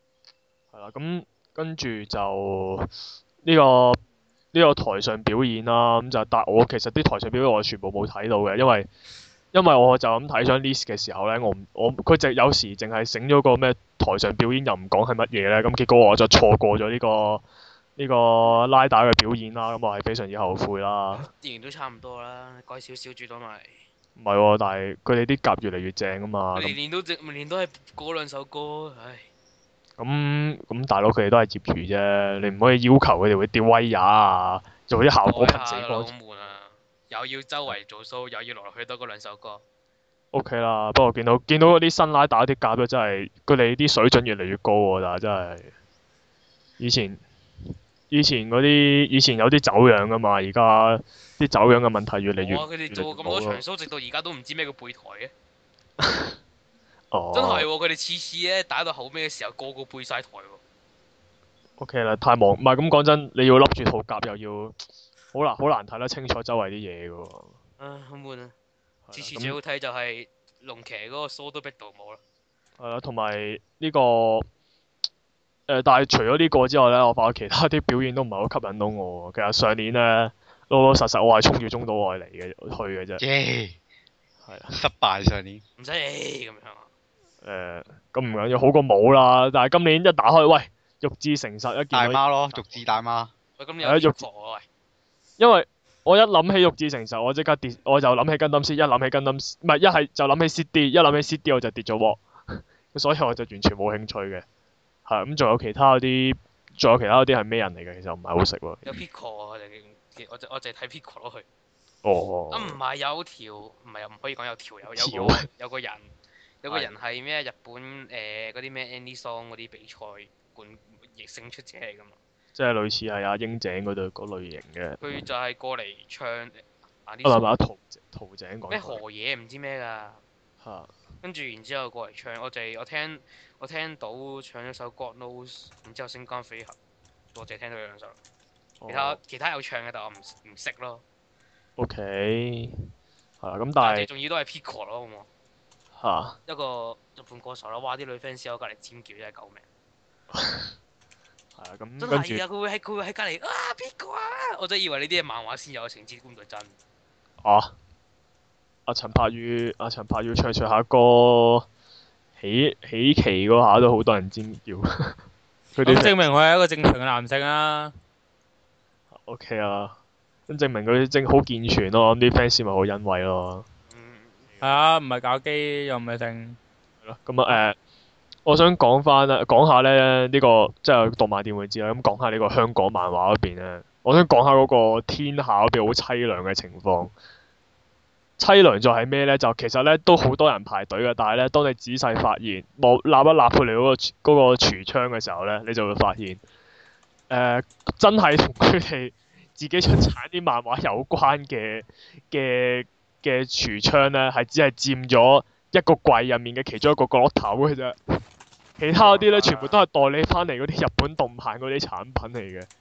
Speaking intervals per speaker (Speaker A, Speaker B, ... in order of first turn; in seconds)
Speaker A: 0.7-2.9, 3.4-4.0, 4.5-8.9, 9.5-17.4, 18.0-21.3, 24.2-26.8, 30.0-36.1, 40.3-45.7, 46.8-47.2, 48.1-53.6, 56.0-56.3, 57.1-57.7, 61.8-64.8, 65.3-67.5, 69.1-69.6, 72.8-74.5, 75.7-83.2, 84.4-84.8, 87.4-92.8, 93.8-94.2, 95.4-104.4, 105.0-109.0, 112.0-112.8, 114.8-115.4, 116.7-116.9, 122.5-125.1, 127.2-129.0, 130.6-130.9, 138.8-139.2, 141.8-142.8, 143.4-144.1, 146.0-146.4, 150.3-150.7, 151.6-152.4, 157.4-157.7, 158.9-161.7, 162.4-165.2, 165.8-166.1, 169.1-169.9, 170.5-173.6, 177.0-177.8, 178.4-187.1, 188.4-196.4, 197.3-207.9, 208.8-212.7
Speaker B: 21.2-23.8, 26.5-29.3, 35.2-39.6, 52.4-55.3, 57.3-60.6, 67.8-68.5, 69.1-72.2, 85.8-86.9, 93.6-94.7, 108.8-111.5, 112.5-122.2, 125.0-127.5, 128.7-130.2, 131.2-136.8, 137.3-138.2, 138.9-141.0, 143.8-145.3, 146.4-149.7, 152.0-156.8, 173.9-174.5, 209.0-209.8
Speaker C: 83.2-83.8, 84.7-85.6, 91.9-93.3
Speaker D: 165.8-167.9, 174.6-176.6